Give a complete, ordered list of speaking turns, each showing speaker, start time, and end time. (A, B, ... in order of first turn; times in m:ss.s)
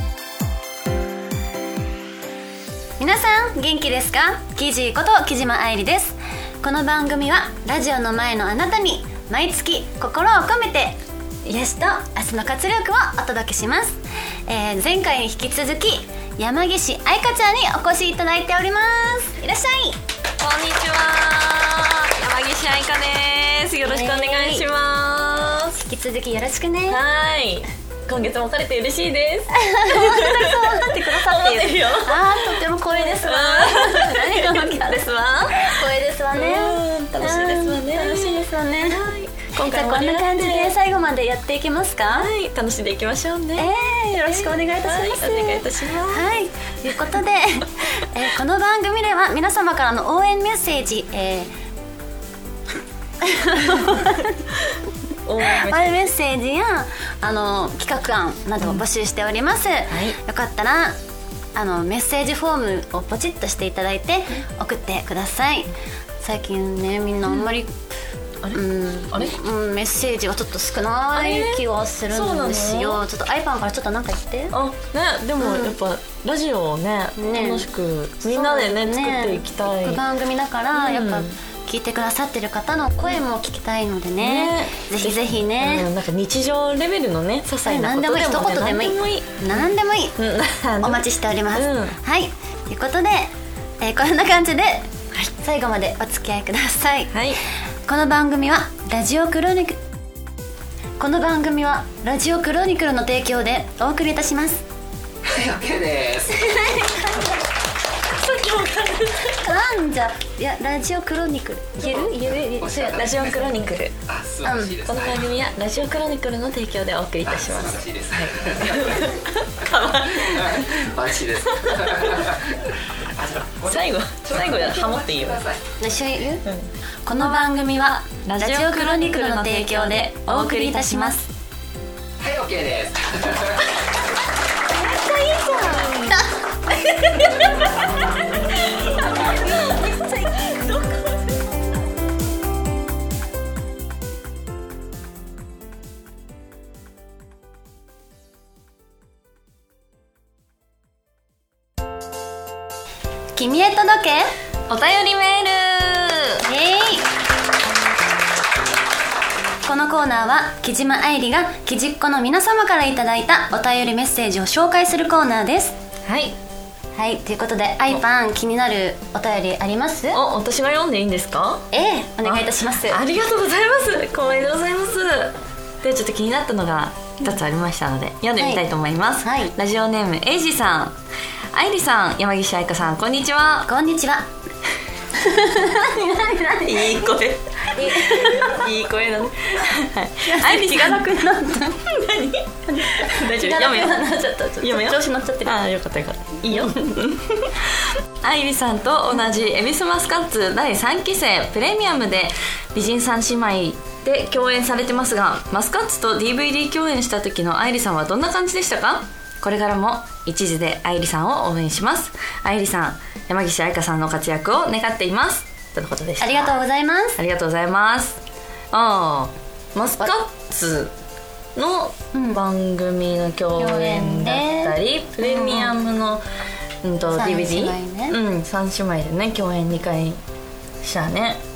0:03.0-0:20.0 A
0:20.4-0:25.8 B
0:23.8-0:24.6 A
0:25.8-0:27.0 A
0:26.9-0:40.8 B
0:29.5-0:42.3 A
0:42.1-0:43.7 B
0:43.6-0:51.5 A
0:44.2-0:46.3 B
0:53.2-0:54.4 A
0:55.2-0:56.1 B
0:55.4-1:01.0 A
0:59.9-1:00.2 B
1:01.5-1:07.7 A
1:08.4-1:09.3 B
1:08.5-1:14.5 A
1:11.1-1:13.0 B
1:14.5-1:20.0 B
1:15.4-1:15.8 A
1:17.2-1:17.7 A
1:18.2-1:25.9 A
1:20.7-1:21.3 B
1:24.2-1:32.0 B
1:27.6-1:30.2 A
1:30.8-1:37.2 A
1:37.1-1:37.4 B
1:37.8-1:39.8 A
1:41.0-1:44.6 A
1:45.2-1:46.8 C
1:46.3-1:47.3 A
1:48.1-1:49.4 B
1:49.3-1:53.1 A
1:51.9-1:53.5 C
1:52.9-1:54.0 B
1:54.1-1:55.3 C
1:54.4-1:54.8 A
1:54.8-2:02.4 B
1:57.3-1:59.1 C
2:00.2-2:02.6 C
2:03.1-2:05.6 C
2:03.6-2:05.4 B
2:05.8-2:06.4 A
2:06.4-2:11.2 B
2:07.0-2:11.2 A
2:12.2-2:13.6 C
2:14.8-2:21.7 B
2:19.2-2:20.4 A
2:33.3-2:34.3 A
2:34.7-2:36.4 B
2:36.4-2:37.1 A
2:39.6-2:45.8 A
2:46.0-2:46.4 B
2:47.0-2:50.2 A
2:50.1-2:51.7 B
2:51.7-2:53.0 A
2:52.2-3:01.0 B
2:58.4-2:58.6 A
2:59.2-2:59.5 A
3:01.5-3:03.7 B
3:03.7-3:04.3 A
3:05.1-3:07.1 A
3:06.6-3:11.2 B
3:07.6-3:08.7 A
3:10.2-3:11.8 A
3:11.8-3:14.1 B
3:12.7-3:15.6 A
3:14.6-3:36.6 B
3:16.5-3:16.9 A
3:36.2-3:37.2 A
3:37.2-3:40.9 B
3:41.5-3:46.2 B
3:42.1-3:42.4 A
3:43.6-3:45.7 A
3:46.8-3:50.2 B
3:47.1-3:48.2 A
3:50.8-3:51.4 B